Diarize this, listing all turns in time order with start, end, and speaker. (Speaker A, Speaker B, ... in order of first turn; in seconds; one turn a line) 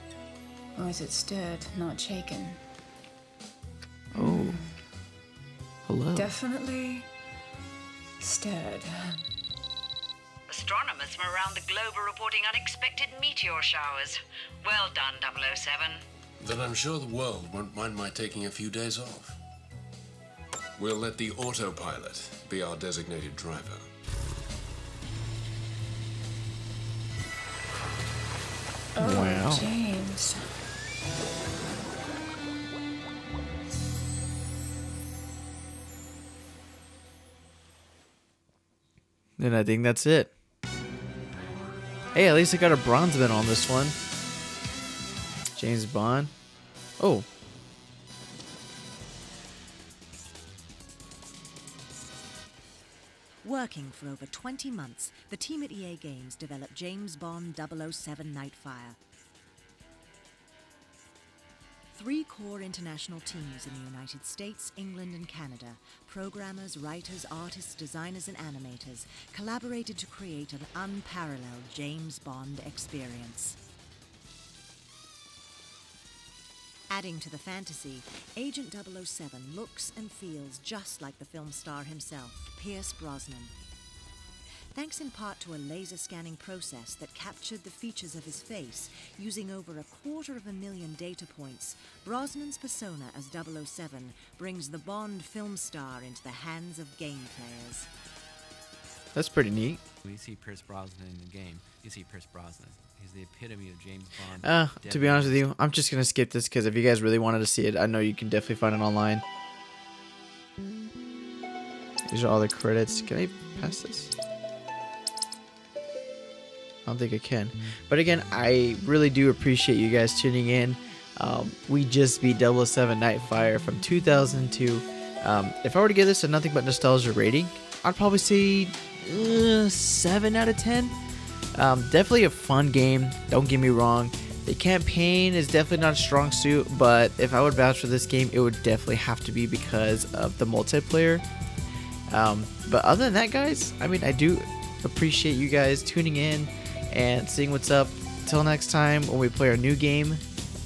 Speaker A: 0.8-2.6
Speaker A: 4.1-4.8
Speaker B: 4.1-4.6
Speaker B: 5.9-6.3
Speaker A: 6.1-7.1
Speaker A: 8.2-9.2
Speaker C: 10.5-16.0
Speaker D: 16.4-19.4
Speaker D: 20.8-23.9
Speaker A: 28.9-30.4
Speaker B: 29.0-29.7
Speaker B: 39.4-40.3
Speaker B: 42.1-44.0
Speaker B: 45.5-46.3
Speaker B: 47.0-47.3
Speaker E: 53.4-59.0
Speaker E: 61.9-73.6
Speaker E: 76.9-83.5
Speaker E: 84.7-97.9
Speaker B: 99.1-99.8
Speaker F: 100.0-105.5
Speaker B: 104.4-109.2
Speaker B: 112.1-114.1
Speaker B: 116.8-130.9
Speaker B: 131.5-141.2
Speaker B: 142.1-150.2